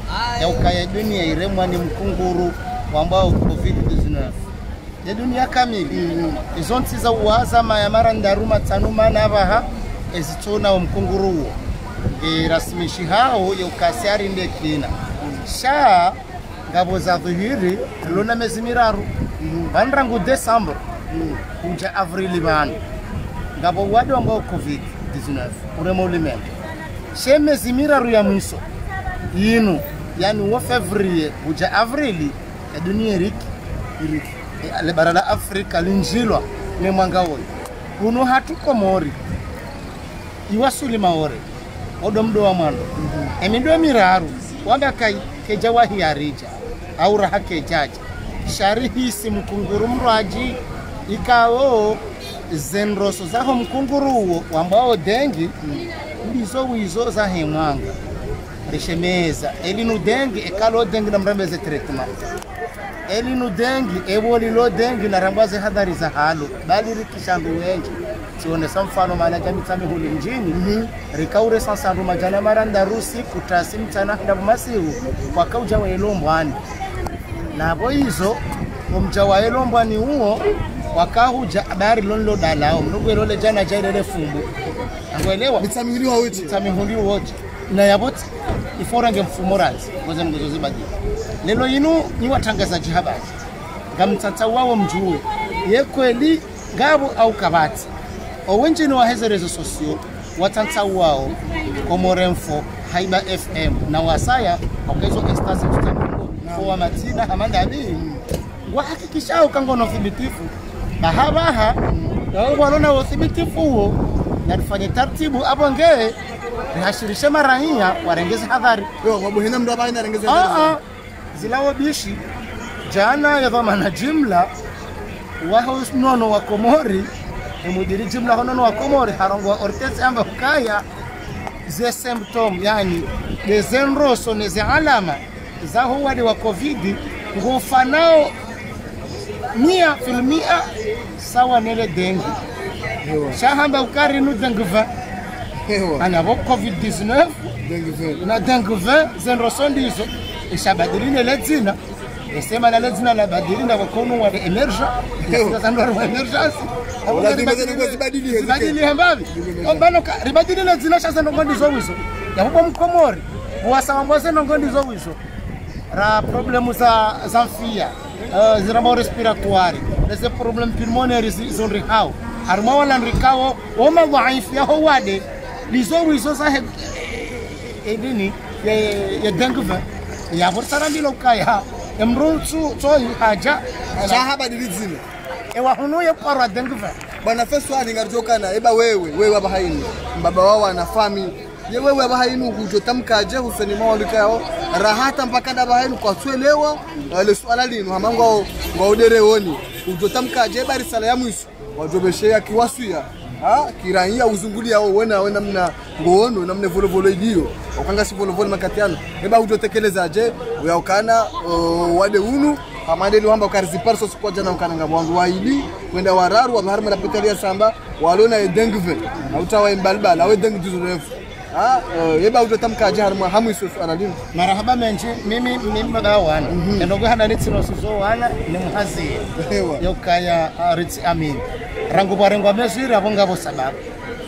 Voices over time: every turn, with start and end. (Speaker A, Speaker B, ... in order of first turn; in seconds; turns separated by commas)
Speaker A: 0.3-4.4, Speaker A: 5.0-11.6, Speaker B: 5.9-6.4, Speaker A: 12.1-16.2, Speaker A: 16.7-19.1, Speaker B: 19.4-19.7, Speaker A: 19.7-20.8, Speaker B: 21.1-21.4, Speaker A: 21.6-22.8, Speaker A: 23.6-26.5, Speaker A: 27.1-28.6, Speaker A: 29.3-33.5, Speaker A: 34.1-39.2, Speaker A: 40.5-41.4, Speaker A: 42.0-55.6, Speaker B: 43.0-43.3, Speaker A: 56.2-57.9, Speaker A: 58.7-62.1, Speaker A: 63.1-76.6, Speaker B: 70.5-70.9, Speaker A: 77.5-84.5, Speaker A: 85.1-85.7, Speaker B: 85.6-86.6, Speaker A: 86.3-90.9, Speaker A: 91.4-93.3, Speaker A: 93.9-97.9, Speaker A: 98.5-108.0, Speaker B: 106.4-106.8, Speaker B: 108.0-108.2, Speaker A: 108.7-111.8, Speaker A: 112.3-116.2, Speaker A: 116.7-118.9, Speaker B: 119.0-120.8, Speaker A: 120.3-120.8, Speaker A: 121.3-122.2, Speaker A: 122.8-124.5, Speaker A: 125.4-127.1, Speaker A: 127.6-130.8, Speaker A: 131.7-138.3, Speaker A: 139.5-142.4, Speaker B: 143.0-143.4, Speaker A: 143.3-144.9, Speaker B: 145.6-146.1, Speaker A: 146.0-147.6, Speaker B: 147.6-148.2, Speaker A: 148.2-151.8, Speaker A: 152.3-165.2, Speaker B: 155.2-155.6, Speaker B: 157.1-158.8, Speaker B: 159.3-159.8, Speaker A: 165.9-176.9, Speaker A: 177.8-184.2, Speaker B: 184.0-185.0, Speaker A: 185.5-187.0, Speaker B: 187.2-224.2, Speaker A: 224.3-229.2, Speaker B: 226.5-226.9, Speaker B: 229.3-229.8, Speaker A: 229.8-233.8